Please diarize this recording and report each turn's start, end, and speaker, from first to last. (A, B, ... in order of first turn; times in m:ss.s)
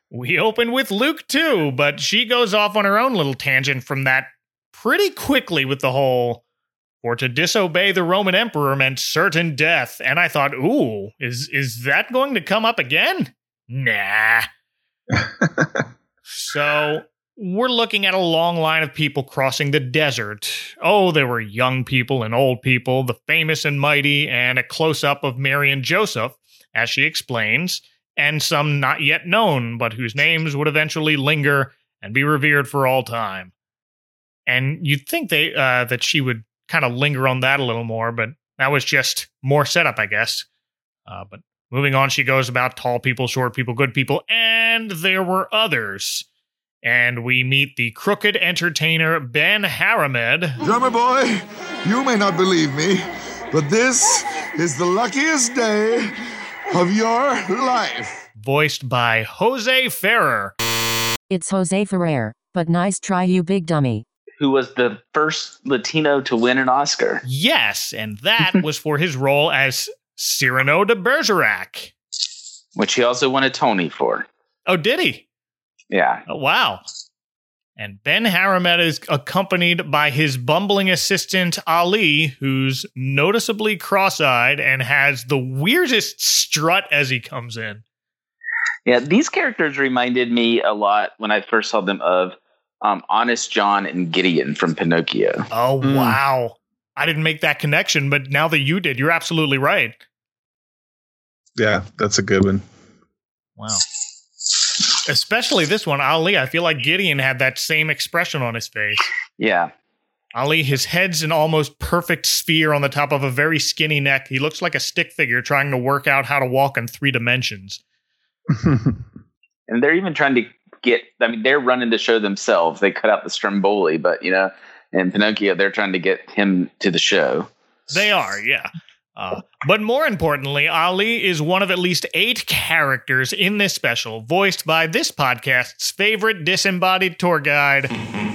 0:00.1-0:06.4 A
0:07.0-0:14.5 A
0:15.1-0:15.9 B
0:16.4-0:33.5 A
0:34.5-0:40.5 A
0:41.1-0:46.3 A
0:46.8-0:50.6 A
0:50.6-0:56.2 C
0:56.7-0:58.2 C
0:58.4-1:00.6 A
1:01.3-1:04.0 D
1:04.4-1:07.2 E
1:07.2-1:11.9 A
1:12.8-1:14.3 E
1:14.7-1:15.2 A
1:15.9-1:16.2 E
1:16.3-1:16.8 A
1:17.8-1:27.8 A
1:28.9-1:35.5 E
1:35.5-1:40.0 A
1:35.8-1:36.2 B
1:41.6-1:42.6 B
1:43.6-1:43.8 A
1:45.1-1:49.0 A
1:49.4-1:49.7 E
1:50.4-1:57.8 A
1:58.5-1:59.0 B
1:59.7-2:07.5 E
2:07.9-2:17.9 A